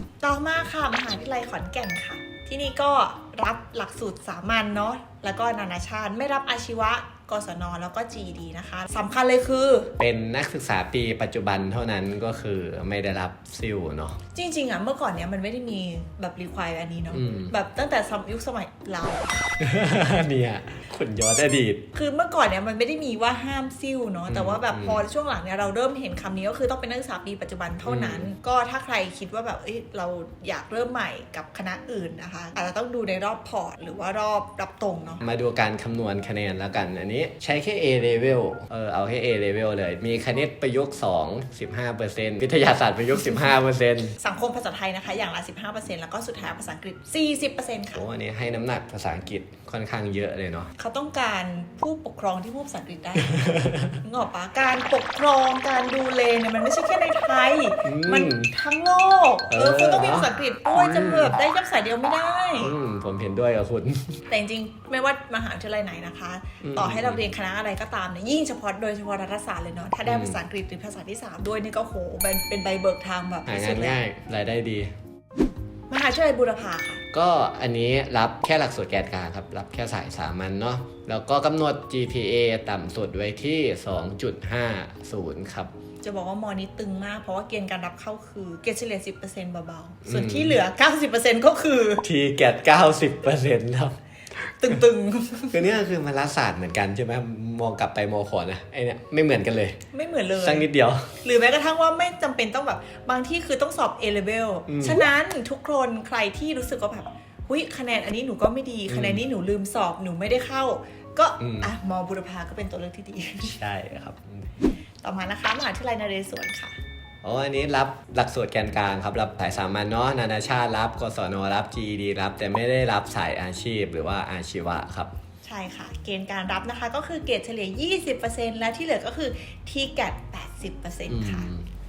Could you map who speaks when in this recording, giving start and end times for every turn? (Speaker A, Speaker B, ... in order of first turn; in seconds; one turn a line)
Speaker A: 0.2-9.9
Speaker B: 10.0-14.2
Speaker A: 14.3-19.4
Speaker B: 17.1-17.5
Speaker B: 19.6-21.8
Speaker A: 21.9-35.2
Speaker B: 24.3-25.0
Speaker B: 27.8-28.3
Speaker B: 35.2-44.1
Speaker A: 44.2-48.0
Speaker B: 47.9-50.7
Speaker A: 50.8-62.7
Speaker B: 53.4-54.0
Speaker B: 57.8-58.5
Speaker B: 59.5-61.3
Speaker B: 62.6-64.2
Speaker A: 64.3-74.0
Speaker B: 66.6-67.2
Speaker B: 70.0-70.4
Speaker B: 73.5-74.9
Speaker A: 75.9-77.0
Speaker B: 77.1-85.7
Speaker A: 86.0-92.0
Speaker B: 90.0-90.6
Speaker B: 92.0-94.0
Speaker A: 94.6-95.6
Speaker B: 95.5-99.8
Speaker A: 99.9-100.7
Speaker B: 100.4-101.1
Speaker A: 101.2-113.6
Speaker B: 104.7-105.0
Speaker B: 108.9-109.2
Speaker B: 111.4-111.7
Speaker B: 113.4-114.5
Speaker A: 115.0-116.8
Speaker B: 117.2-125.1
Speaker A: 125.4-131.5
Speaker B: 131.1-131.7